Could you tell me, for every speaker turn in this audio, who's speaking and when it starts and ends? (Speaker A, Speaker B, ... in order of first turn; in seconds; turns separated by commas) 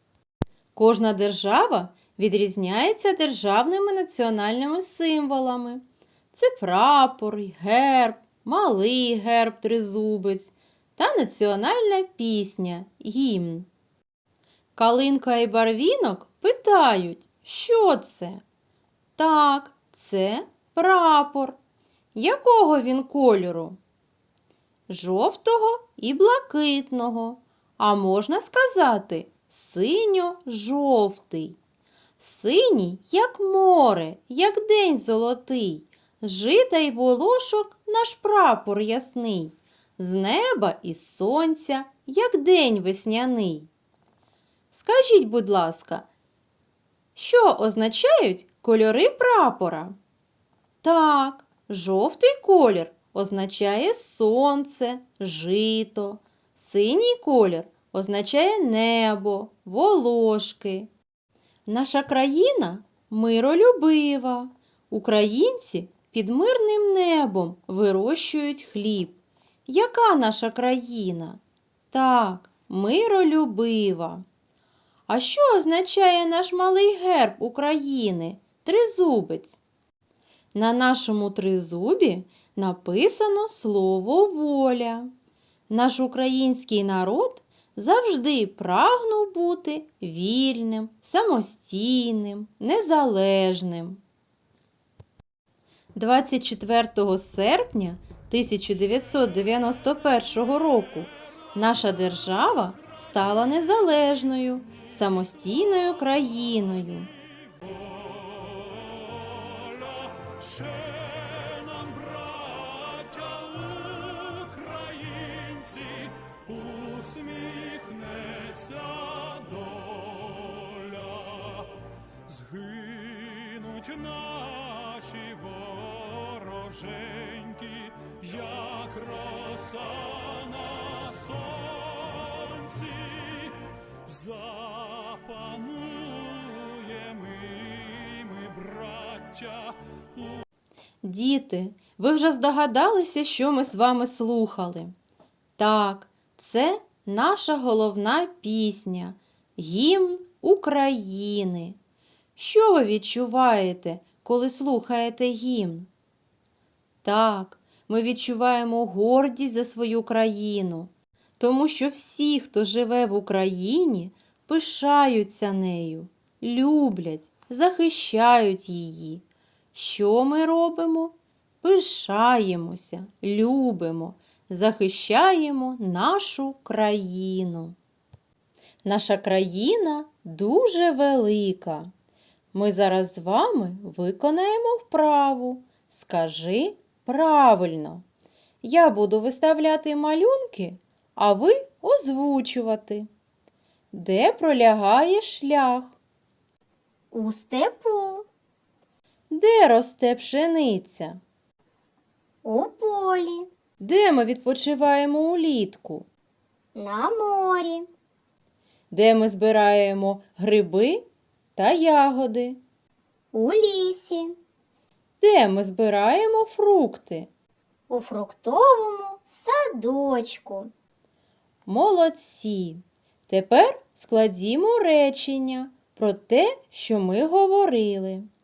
Speaker A: 0.8-13.7, Speaker A: 14.8-18.4, Speaker A: 19.2-21.6, Speaker A: 22.1-23.8, Speaker A: 24.9-31.6, Speaker A: 32.2-43.7, Speaker A: 44.7-46.1, Speaker A: 47.2-49.9, Speaker A: 50.8-60.9, Speaker A: 61.7-74.2, Speaker A: 75.1-79.6, Speaker A: 80.5-85.1, Speaker A: 85.7-94.0, Speaker A: 95.9-107.1, Speaker B: 109.4-121.7, Speaker B: 122.3-133.5, Speaker B: 134.1-139.8, Speaker A: 141.0-144.9, Speaker A: 145.6-151.8, Speaker A: 152.4-155.9, Speaker A: 157.0-177.8, Speaker A: 178.8-181.9, Speaker A: 182.5-188.0, Speaker A: 188.6-193.1, Speaker A: 193.9-196.0, Speaker C: 197.1-198.3, Speaker A: 199.3-201.2, Speaker C: 202.4-203.5, Speaker A: 203.8-206.1, Speaker C: 206.8-207.9, Speaker A: 208.9-211.0, Speaker A: 211.6-212.6, Speaker C: 213.3-214.4, Speaker A: 215.2-217.3, Speaker C: 217.9-220.7, Speaker A: 221.7-228.3